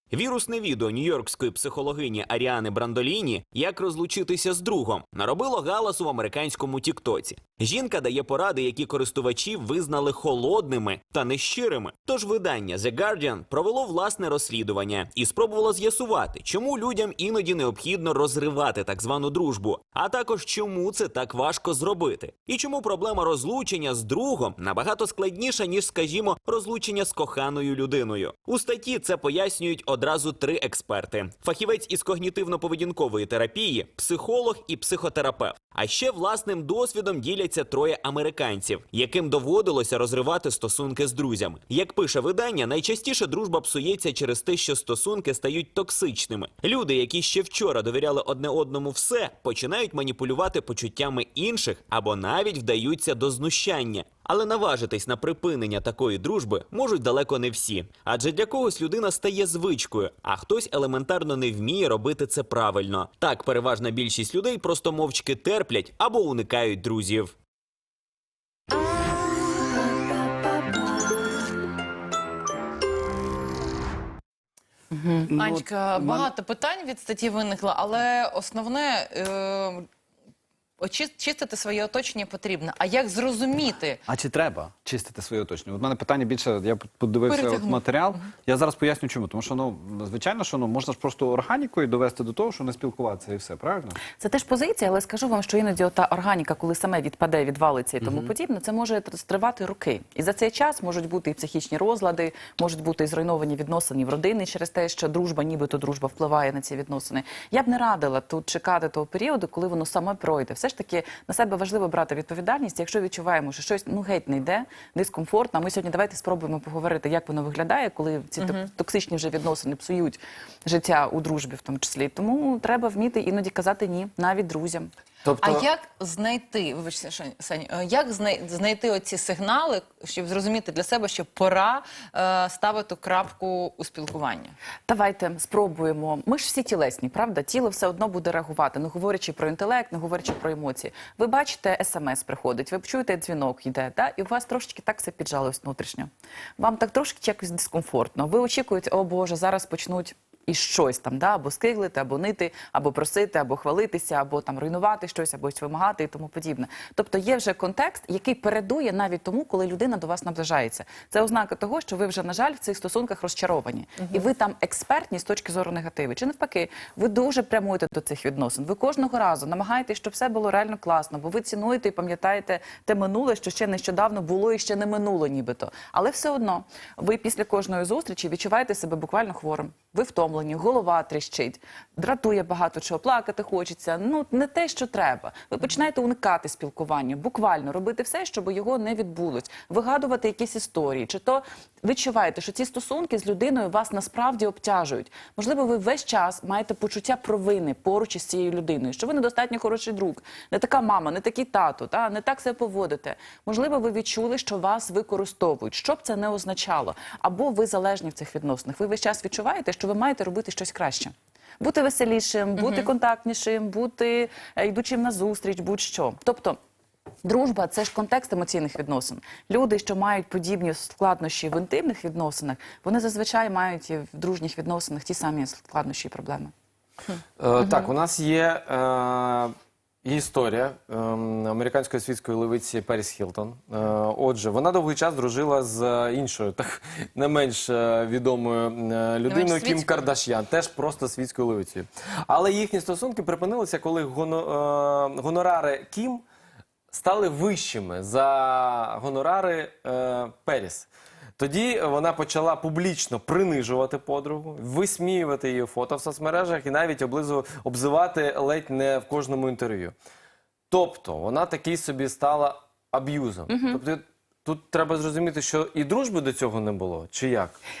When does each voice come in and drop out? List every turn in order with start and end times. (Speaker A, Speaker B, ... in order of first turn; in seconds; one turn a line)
Speaker A: 0.1-67.3
Speaker B: 74.9-75.3
Speaker C: 75.3-76.3
Speaker D: 75.3-79.9
Speaker D: 80.8-84.0
Speaker C: 84.1-94.0
Speaker D: 87.3-87.8
Speaker B: 94.2-124.9
Speaker D: 118.4-118.7
Speaker E: 125.2-125.7
Speaker D: 125.4-134.5
Speaker B: 134.8-216.6
Speaker D: 212.6-212.8
Speaker B: 217.2-226.5
Speaker E: 227.4-246.2
Speaker B: 227.6-227.9
Speaker D: 239.2-240.1
Speaker E: 246.9-259.9
Speaker E: 260.7-267.6
Speaker B: 263.5-263.8